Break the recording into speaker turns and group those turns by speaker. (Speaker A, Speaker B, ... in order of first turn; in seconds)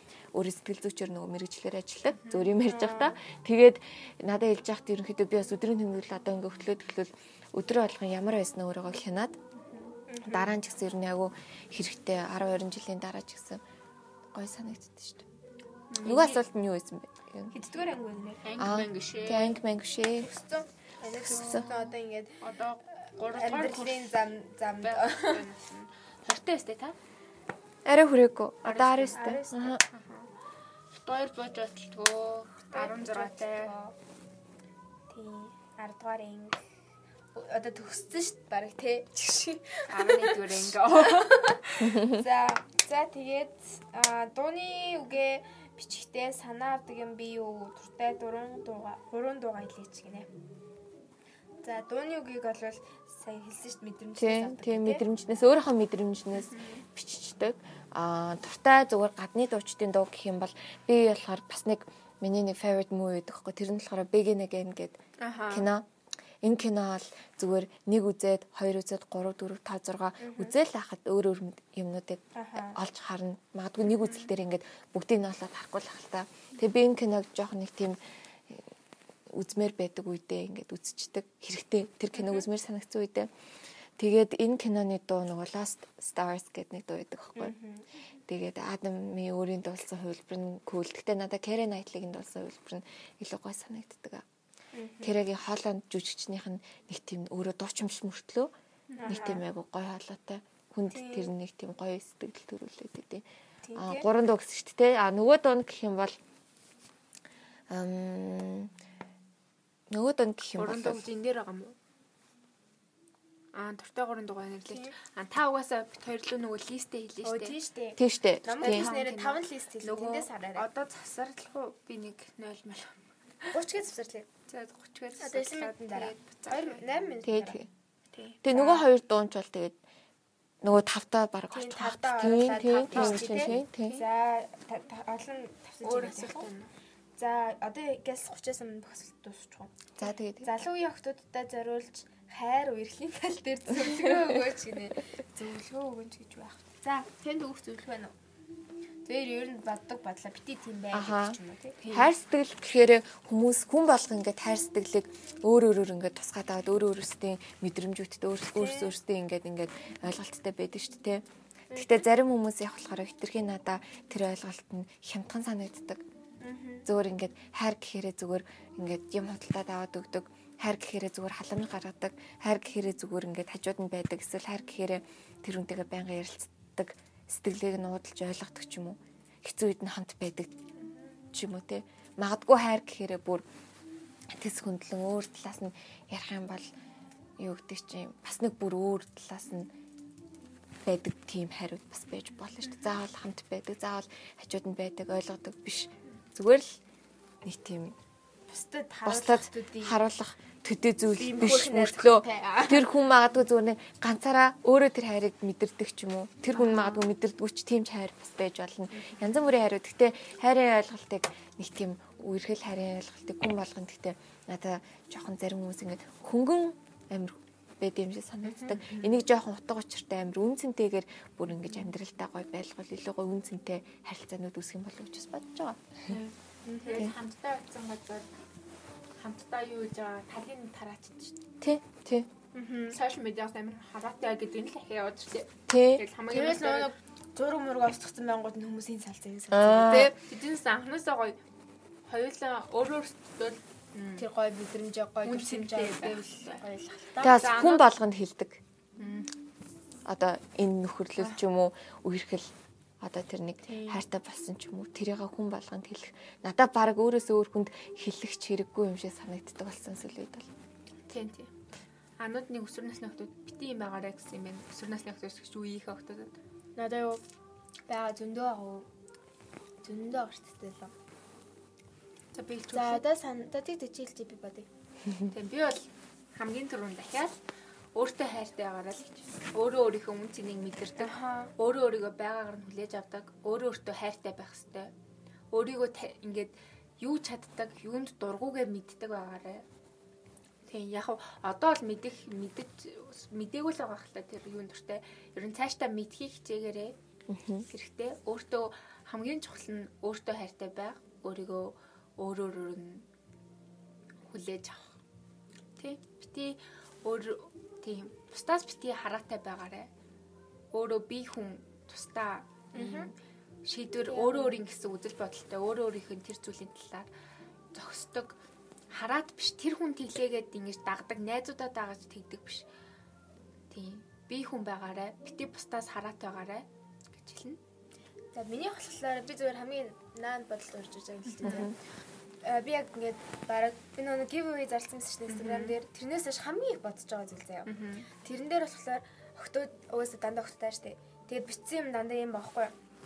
Speaker A: 0.3-9.4, 10.2-13.6, 14.3-15.2, 16.0-17.5, 18.6-20.3, 21.2-21.7, 27.8-29.8, 41.9-42.2, 54.2-65.0, 65.5-65.8, 66.4-78.7, 79.3-83.3, 84.0-87.5, 88.3-94.2, 95.0-98.5, 99.0-106.2, 107.7-108.7, 109.9-111.0, 118.0-118.9, 127.2-127.7, 128.4-129.8, 130.6-134.0, 140.0-140.5, 150.9-161.2, 161.7-166.0, 166.8-180.5, 181.3-183.4, 184.3-186.7, 187.4-189.7, 190.8-196.8, 197.4-197.9, 199.0-226.2, 231.6-232.3, 235.7-236.0, 239.5-240.1, 247.2-248.6, 250.0-260.5, 297.3-297.6, 331.4-331.7
Speaker B: 2.1-2.6, 15.9-16.4, 18.4-19.6, 21.2-24.2, 24.8-26.9, 28.6-29.2, 29.9-30.3, 30.9-33.7, 39.9-41.6, 56.4-56.8, 65.2-65.7, 73.9-74.3, 98.9-99.2, 110.6-111.7, 113.5-117.5, 118.6-123.5, 124.5-126.8, 128.1-128.4, 132.9-133.6, 135.8-136.7, 151.8-152.1, 226.1-228.3, 229.2-231.4, 232.9-236.9, 239.8-241.4, 242.1-244.2, 245.2-246.6, 247.2-247.9, 249.0-249.3, 261.1-261.5, 262.2-266.4, 272.3-273.0, 275.3-277.3, 277.9-284.9, 285.5-289.6, 290.7-296.9, 297.7-303.1, 304.2-304.9, 305.8-309.9, 310.7-317.1, 317.7-318.4, 318.9-322.6, 323.7-327.6, 331.3-331.7, 335.3-335.7, 337.6-338.1
Speaker C: 2.6-3.1, 10.1-10.5, 17.5-18.5, 20.2-22.4, 23.3-25.4, 29.1-29.8, 32.7-33.9, 35.1-36.6, 37.3-50.3, 51.6-55.0, 70.2-70.5, 72.3-72.8, 87.4-87.8, 94.7-95.2, 99.0-99.4, 100.9-101.3, 103.6-104.1, 114.7-114.9, 117.2-120.7, 123.5-124.3, 125.2-127.6, 128.5-128.8, 131.5-136.5, 137.2-139.7, 140.4-148.1, 149.0-151.9, 158.6-158.9, 161.7-162.0, 166.4-166.9, 198.5-200.0, 201.1-202.9, 206.5-207.0, 226.7-227.1, 232.5-233.0, 236.3-240.2, 244.2-247.5, 253.7-254.0, 266.8-267.2, 267.9-268.9, 269.8-270.9, 272.7-274.7, 281.0-281.5, 312.7-313.1, 314.1-314.6, 328.3-331.7, 332.4-337.7, 338.2-342.7